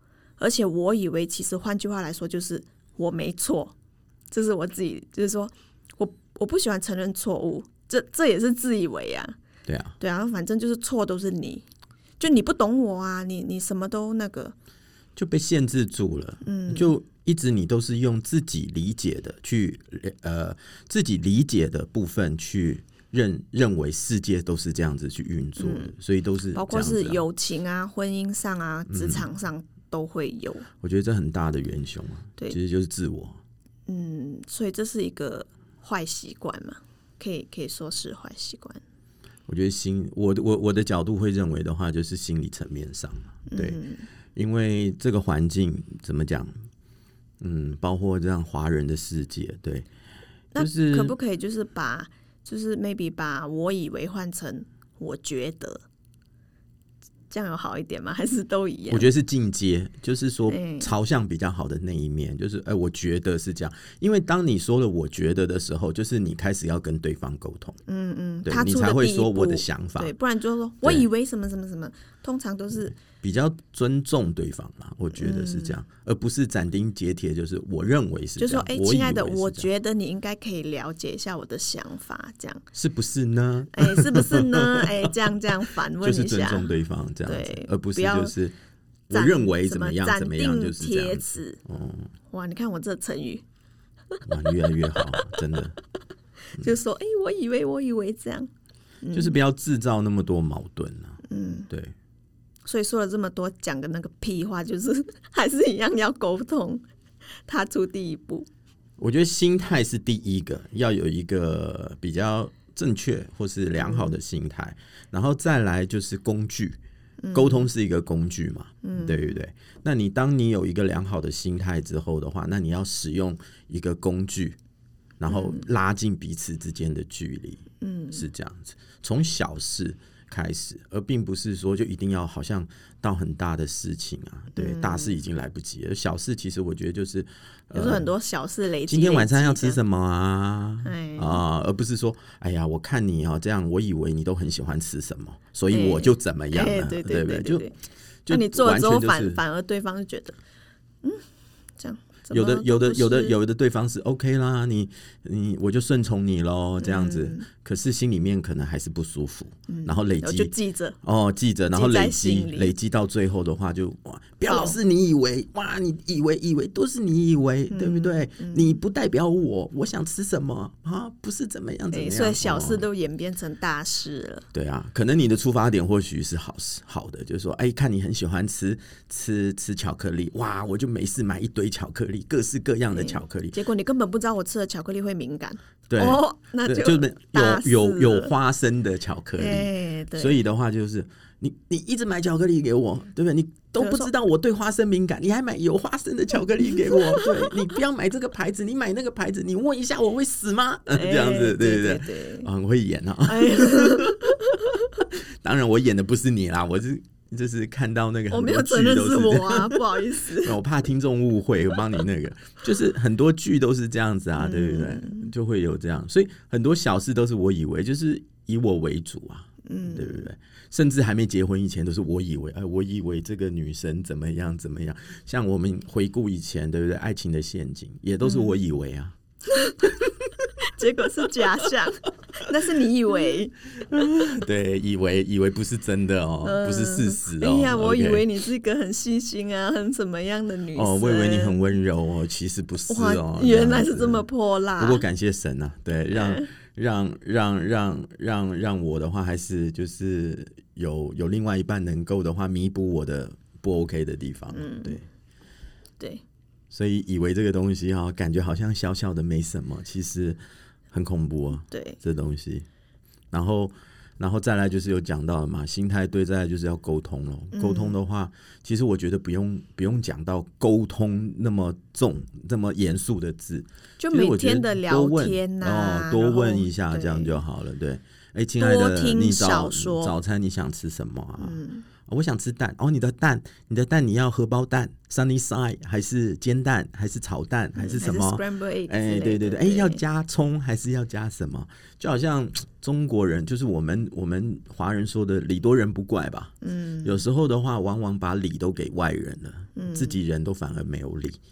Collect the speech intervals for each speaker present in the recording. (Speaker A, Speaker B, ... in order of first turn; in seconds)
Speaker A: 0.4-3.8, 4.3-9.3, 10.0-11.7, 12.2-14.6, 16.4-16.9, 25.6-25.9, 26.5-30.7, 33.9-38.8, 43.5-44.1, 50.5-55.8, 57.3-59.1, 60.5-60.9, 67.9-73.0, 75.2-75.8, 78.4-82.6, 83.7-86.7, 87.3-88.3, 89.1-91.6, 92.3-93.4, 95.0-95.4, 96.5-98.5, 99.0-99.4, 101.3-101.7, 102.7-106.8, 107.5-108.5, 113.8-114.2, 117.2-117.7, 118.8-119.4, 125.3-125.6, 127.8-128.2, 134.6-135.2, 137.7-139.8, 140.8-141.4, 145.7-147.8, 148.3-150.4, 151.8-153.4, 156.8-157.5, 159.7-161.0, 161.7-162.7, 164.5-164.8, 167.7-168.8, 171.9-174.4, 182.9-188.3, 189.4-190.4, 193.8-194.1, 196.9-197.5, 200.9-202.5, 203.3-204.6, 208.3-210.6, 214.4-215.3, 219.7-220.3, 228.2-228.6, 229.6-229.9, 230.7-233.6, 236.4-241.7, 242.9-245.1, 246.1-246.5, 254.5-255.0, 261.7-262.0, 267.5-268.0, 274.0-277.4, 278.6-280.2, 281.4-281.9, 287.8-290.0, 296.6-297.2, 299.8-300.2
Speaker B: 9.7-10.0, 15.2-27.2, 28.9-29.3, 30.8-33.4, 39.5-43.8, 44.4-46.7, 47.4-49.9, 50.5-51.1, 58.9-67.8, 68.5-70.1, 70.8-71.1, 73.0-79.7, 82.7-85.1, 86.0-88.5, 89.1-92.1, 94.2-95.8, 99.1-101.9, 109.0-116.8, 117.3-124.6, 125.2-138.1, 138.9-147.7, 148.3-149.4, 152.3-172.9, 174.5-183.6, 185.9-204.5, 205.2-229.2, 233.9-238.3, 240.7-244.2, 244.8-255.1, 256.7-260.4, 260.9-262.7, 263.3-301.4